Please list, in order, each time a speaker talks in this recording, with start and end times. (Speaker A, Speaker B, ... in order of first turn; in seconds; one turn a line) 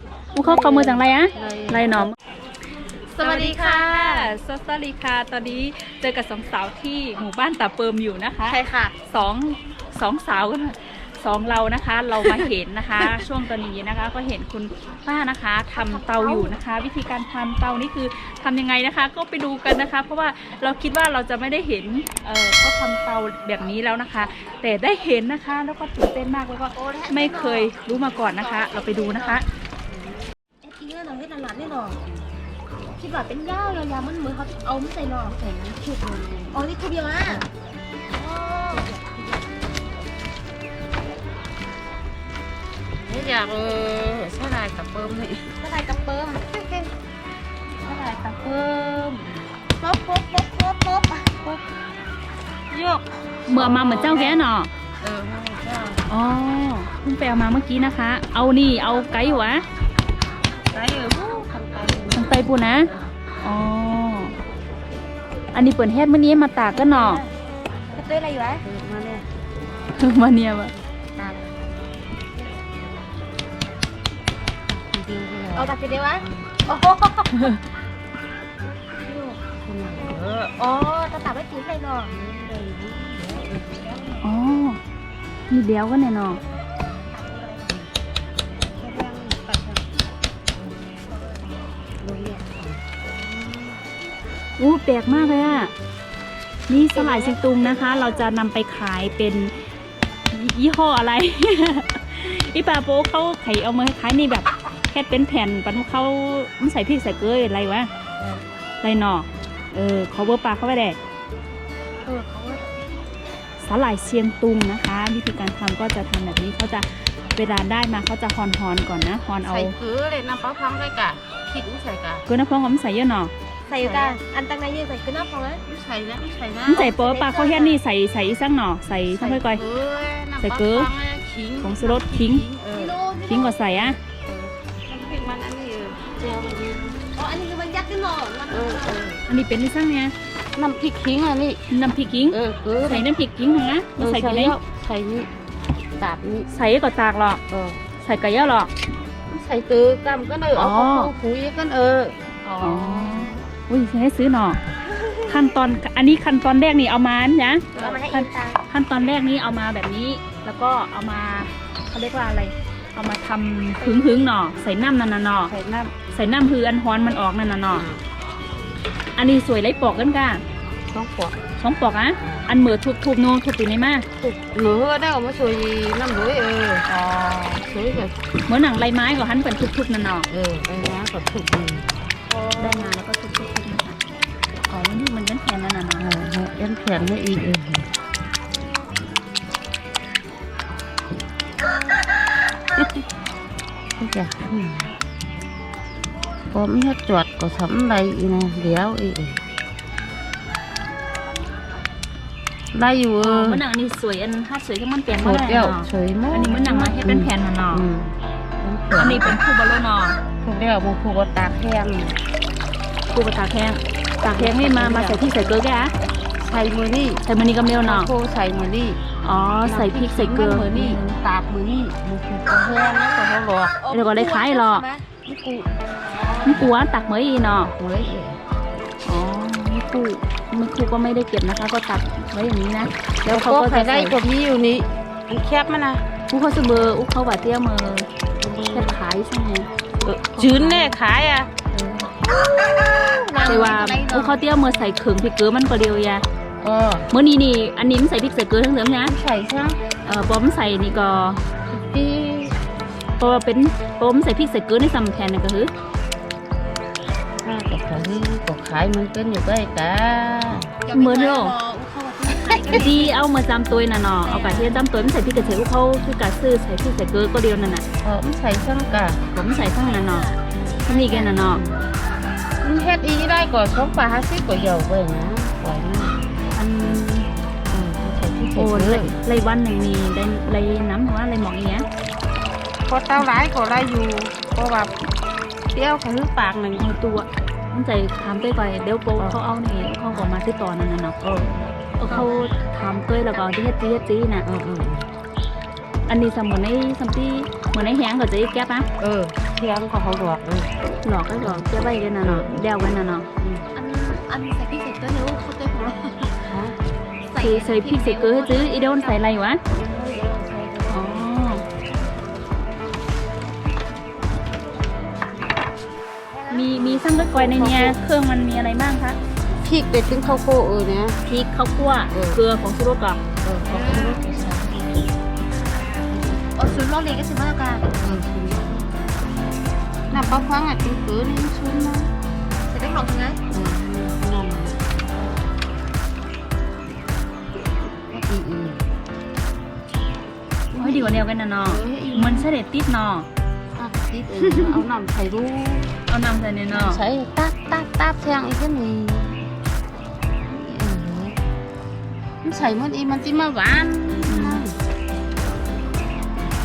Speaker A: 0.3-2.1
Speaker B: 0.4-2.1
Speaker A: 3.1-29.4
Speaker B: 3.2-4.3
Speaker C: 8.4-8.9
Speaker C: 15.7-16.6
Speaker C: 26.7-29.4
Speaker C: 30.6-32.0
Speaker C: 33.0-35.4
Speaker B: 35.2-36.6
Speaker C: 36.5-37.5
Speaker C: 38.1-39.4
Speaker B: 43.1-46.9
Speaker B: 47.8-49.4
Speaker C: 49.8-51.4
Speaker B: 52.7-54.5
Speaker A: 53.5-54.7
Speaker B: 55.0-56.1
Speaker A: 56.1-59.6
Speaker B: 58.9-59.6
Speaker B: 60.7-62.5
Speaker A: 62.1-62.9
Speaker A: 63.4-64.3
Speaker A: 65.5-67.2
Speaker C: 66.7-67.3
Speaker C: 67.9-68.6
Speaker B: 68.6-69.3
Speaker A: 69.9-70.7
Speaker B: 70.9-71.5
Speaker B: 74.7-76.5
Speaker C: 75.5-77.6
Speaker C: 79.0-79.4
Speaker B: 79.6-80.5
Speaker C: 80.5-82.1
Speaker B: 82.1-84.2
Speaker A: 84.2-84.8
Speaker A: 85.5-86.4
Speaker C: 87.1-87.7
Speaker B: 88.7-89.9
Speaker B: 92.0-93.8
Speaker A: 94.6-95.7
Speaker B: 95.0-95.7
Speaker A: 96.7-99.5
Speaker B: 96.7-98.3
Speaker A: 100.3-107.9
Speaker B: 108.2-108.4
Speaker A: 108.8-111.0
Speaker C: 112.0-112.8
Speaker A: 113.6-119.8
Speaker B: 119.4-122.2
Speaker A: 122.3-123.3
Speaker C: 123.6-125.6
Speaker B: 123.7-124.2
Speaker B: 125.6-127.8
Speaker A: 126.7-129.6
Speaker B: 129.1-133.0
Speaker A: 130.4-130.9
Speaker A: 131.6-132.4
Speaker C: 132.7-133.6
Speaker A: 133.2-134.0
Speaker B: 133.7-137.1
Speaker C: 137.1-139.2
Speaker B: 138.5-139.2
Speaker A: 139.3-140.1
Speaker B: 140.5-141.6
Speaker A: 141.7-144.6
Speaker B: 142.3-143.1
Speaker B: 144.0-145.3
Speaker B: 146.0-146.5
Speaker A: 146.5-147.4
Speaker B: 147.5-147.8
Speaker A: 148.0-148.7
Speaker B: 149.3-153.4
Speaker A: 150.5-151.1
Speaker A: 152.6-154.6
Speaker C: 155.0-155.3
Speaker A: 155.3-165.5
Speaker C: 157.7-158.6
Speaker B: 157.7-158.1
Speaker C: 163.8-164.3
Speaker B: 165.5-166.1
Speaker A: 166.1-167.8
Speaker B: 167.7-168.0
Speaker A: 169.2-170.4
Speaker B: 170.9-171.4
Speaker A: 171.6-174.1
Speaker B: 174.2-176.9
Speaker A: 176.9-177.6
Speaker B: 177.6-178.2
Speaker A: 178.4-180.3
Speaker B: 180.3-182.9
Speaker A: 182.6-184.0
Speaker A: 184.7-186.1
Speaker B: 186.0-187.9
Speaker B: 194.0-194.9
Speaker B: 196.5-199.4
Speaker B: 202.7-203.6
Speaker A: 203.2-207.8
Speaker B: 205.1-209.4
Speaker A: 208.9-210.2
Speaker B: 210.4-212.2
Speaker A: 213.1-215.9
Speaker B: 214.3-215.6
Speaker B: 216.4-217.2
Speaker A: 217.2-218.1
Speaker B: 217.8-219.0
Speaker A: 219.2-221.1
Speaker B: 219.6-223.8
Speaker C: 222.7-223.2
Speaker C: 223.8-225.1
Speaker A: 223.9-224.9
Speaker B: 225.2-226.7
Speaker A: 226.4-227.7
Speaker B: 227.6-228.4
Speaker A: 229.0-234.2
Speaker B: 233.3-236.0
Speaker A: 236.3-238.1
Speaker B: 238.4-239.0
Speaker A: 238.7-239.7
Speaker B: 240.0-241.5
Speaker A: 240.3-240.9
Speaker A: 241.7-242.1
Speaker B: 242.9-244.3
Speaker C: 243.3-244.3
Speaker A: 243.4-246.2
Speaker B: 246.6-247.1
Speaker A: 247.1-249.1
Speaker B: 249.0-250.1
Speaker A: 250.1-251.4
Speaker B: 251.7-252.6
Speaker A: 253.2-255.7
Speaker B: 257.4-260.7
Speaker C: 260.9-263.2
Speaker A: 260.9-261.5
Speaker B: 262.4-262.9
Speaker A: 262.7-267.8
Speaker C: 264.2-264.9
Speaker B: 268.0-269.3
Speaker A: 269.3-270.3
Speaker C: 269.5-271.5
Speaker A: 270.9-271.6
Speaker B: 271.4-271.8
Speaker B: 272.6-276.1
Speaker A: 276.6-277.2
Speaker B: 277.7-279.2
Speaker A: 278.5-281.9
Speaker B: 282.9-285.0
Speaker B: 285.7-286.9
Speaker A: 286.8-291.1
Speaker B: 291.2-292.3
Speaker A: 292.0-294.4
Speaker C: 292.1-292.5
Speaker B: 294.4-295.1
Speaker A: 296.1-298.9
Speaker B: 299.0-300.7
Speaker A: 301.0-303.3
Speaker B: 302.2-302.7
Speaker B: 303.4-303.7
Speaker C: 303.7-306.5
Speaker B: 306.5-306.8
Speaker C: 307.2-309.2
Speaker A: 307.4-309.6
Speaker B: 309.7-311.3
Speaker A: 310.9-311.6
Speaker C: 316.3-316.9
Speaker A: 316.5-319.2
Speaker B: 316.8-318.0
Speaker B: 319.5-321.2
Speaker A: 321.2-323.2
Speaker B: 322.1-322.4
Speaker B: 323.4-324.8
Speaker C: 323.6-324.4
Speaker A: 324.0-324.4
Speaker C: 325.8-328.0
Speaker B: 326.1-326.5
Speaker B: 327.9-328.9
Speaker B: 330.1-332.1
Speaker C: 332.7-333.4
Speaker B: 333.5-334.8
Speaker B: 338.1-338.8
Speaker B: 340.7-342.5
Speaker A: 340.8-343.3
Speaker B: 343.8-345.9
Speaker A: 344.4-344.8
Speaker A: 346.1-347.0
Speaker B: 346.7-349.5
Speaker B: 350.5-351.4
Speaker B: 352.4-354.8
Speaker A: 354.3-354.6